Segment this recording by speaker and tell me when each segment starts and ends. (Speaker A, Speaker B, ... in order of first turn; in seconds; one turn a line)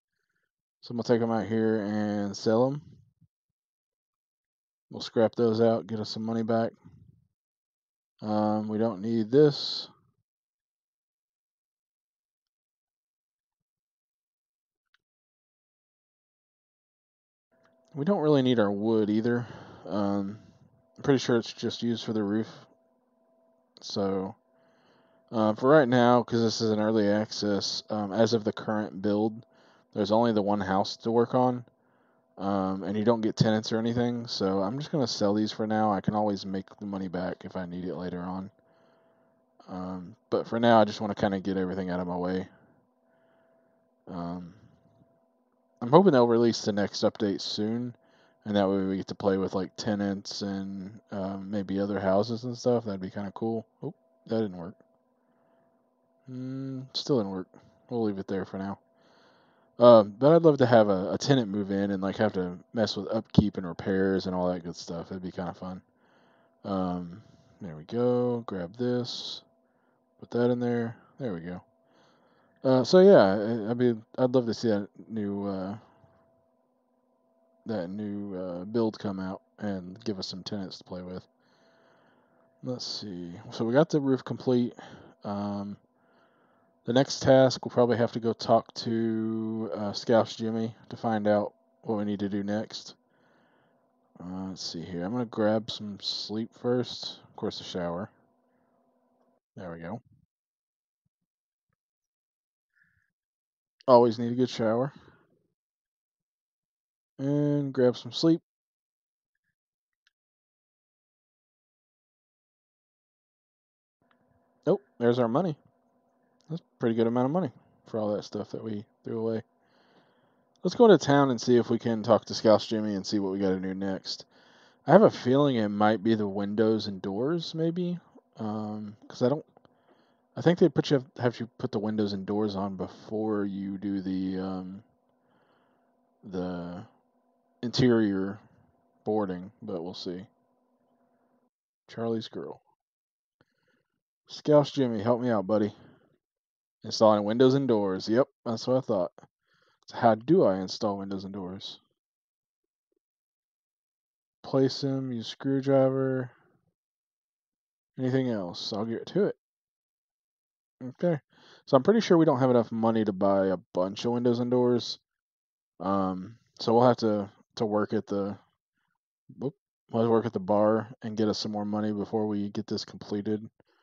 Speaker A: 0.8-2.9
Speaker A: 4.9-6.8
Speaker A: 8.2-9.9
Speaker A: 17.9-22.7
Speaker A: 23.8-24.4
Speaker A: 25.3-31.7
Speaker A: 32.4-38.5
Speaker A: 39.6-42.5
Speaker A: 44.1-44.6
Speaker A: 45.8-54.8
Speaker A: 56.3-58.8
Speaker A: 59.8-65.8
Speaker A: 66.6-69.4
Speaker A: 70.2-71.6
Speaker A: 72.6-75.8
Speaker A: 77.6-81.3
Speaker A: 82.6-85.8
Speaker A: 86.8-93.0
Speaker A: 94.2-98.1
Speaker A: 99.5-100.0
Speaker A: 103.9-104.9
Speaker A: 107.2-108.4
Speaker A: 114.7-115.6
Speaker A: 116.5-119.4
Speaker A: 120.6-124.3
Speaker A: 124.8-129.4
Speaker A: 130.3-134.8
Speaker A: 136.2-136.9
Speaker A: 137.6-138.4
Speaker A: 139.0-140.3
Speaker A: 141.9-142.6
Speaker A: 144.3-145.7
Speaker A: 146.8-149.1
Speaker A: 149.8-151.8
Speaker A: 154.4-156.3
Speaker A: 157.9-159.4
Speaker A: 160.8-165.0
Speaker A: 165.8-168.4
Speaker A: 169.3-173.5